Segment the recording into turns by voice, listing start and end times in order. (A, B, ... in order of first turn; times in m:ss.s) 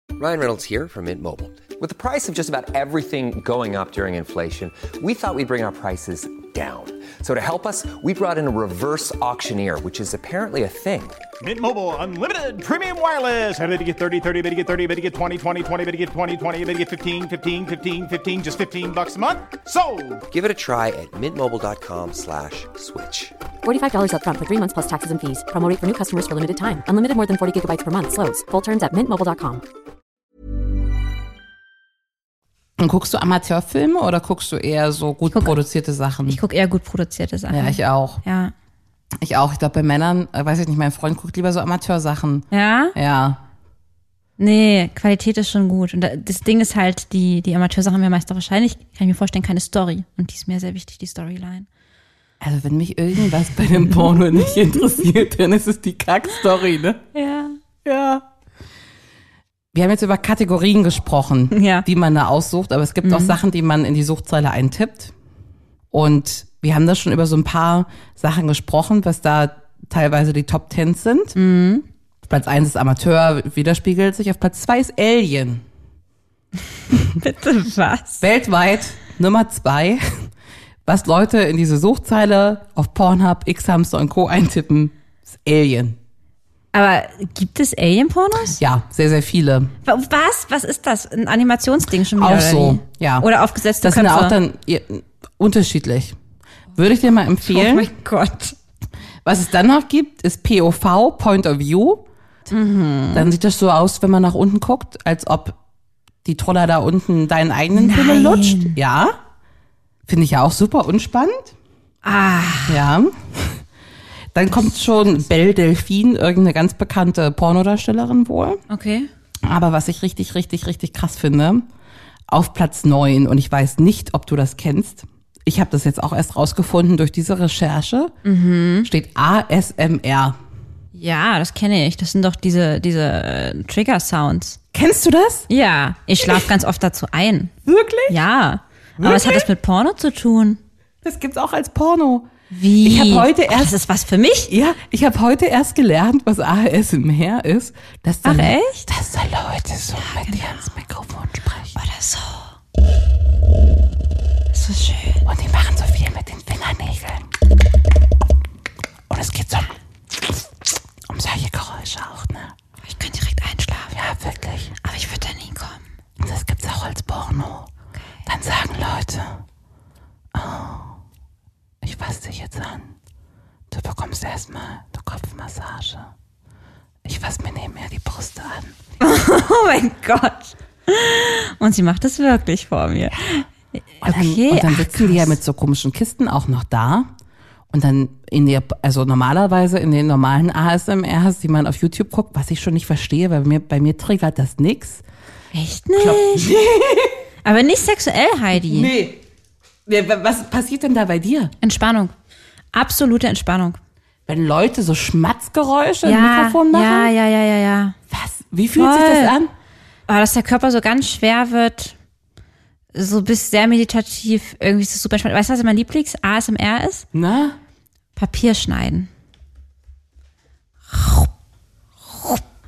0:00.2-0:11.2 A
0:11.4-0:20.2 B
0:20.3-0:23.4 A
0:23.6-0:29.6 C
0:32.8-0:36.4 D
0:36.3-0:38.5 E
0:37.5-0:38.2 D
0:39.2-0:43.4 D
0:42.5-0:42.9 E
0:44.4-0:51.7 E
0:52.4-0:57.0 D
0:57.1-0:57.6 E
0:57.8-0:58.2 D
0:59.7-1:05.1 D
1:01.5-1:01.9 E
1:03.0-1:03.4 E
1:05.9-1:11.4 D
1:11.4-1:11.9 E
1:12.2-1:15.6 D
1:17.1-1:18.2 E
1:18.2-1:20.3 D
1:20.9-1:26.0 D
1:26.7-1:28.6 E
1:28.5-1:29.7 D
1:29.8-1:34.4 E
1:32.1-1:36.2 D
1:36.8-1:37.9 D
1:37.4-1:38.6 E
1:39.2-1:42.0 D
1:42.5-1:43.3 E
1:43.1-1:45.6 D
1:46.2-1:49.2 D
1:47.8-1:48.8 E
1:50.1-1:51.5 D
1:52.0-1:52.8 E
1:52.7-1:53.6 D
1:54.3-1:58.6 D
1:58.7-1:59.1 E
1:59.4-2:01.7 D
2:02.3-2:08.1 D
2:08.2-2:08.9 E
2:08.8-2:10.4 D
2:10.9-2:14.6 E
2:14.7-2:15.5 D
2:15.5-2:17.5 E
2:16.2-2:16.5 D
2:17.6-2:18.2 D
2:18.1-2:20.6 E
2:19.0-2:19.5 D
2:21.0-2:23.8 D
2:22.5-2:24.5 E
2:24.5-2:31.8 D
2:28.2-2:28.8 E
2:30.0-2:30.6 E
2:31.8-2:32.5 E
2:34.5-2:35.2 E
2:35.3-2:37.3 D
2:39.1-2:40.4 D
2:41.1-2:42.5 D
2:42.8-2:43.9 E
2:43.9-2:44.7 D
2:44.8-2:45.8 E
2:46.2-2:47.7 D
2:48.3-2:49.4 D
2:50.3-2:51.0 D
2:51.8-2:52.9 D
2:53.7-2:56.1 D
2:57.0-2:58.7 D
2:59.0-3:03.4 E
3:03.1-3:03.4 D
3:04.0-3:05.4 E
3:04.0-3:07.1 D
3:07.7-3:15.0 D
3:15.5-3:16.5 E
3:16.0-3:17.2 D
3:17.4-3:18.9 E
3:18.6-3:19.2 D
3:19.9-3:21.5 D
3:21.6-3:22.1 E
3:22.7-3:23.8 E
3:24.3-3:27.1 D
3:26.0-3:28.0 E
3:28.1-3:29.5 D
3:28.8-3:29.3 E
3:30.1-3:31.9 E
3:32.9-3:37.1 E
3:37.1-3:37.6 D
3:38.2-3:39.1 E
3:40.9-3:41.3 E
3:42.1-3:42.4 E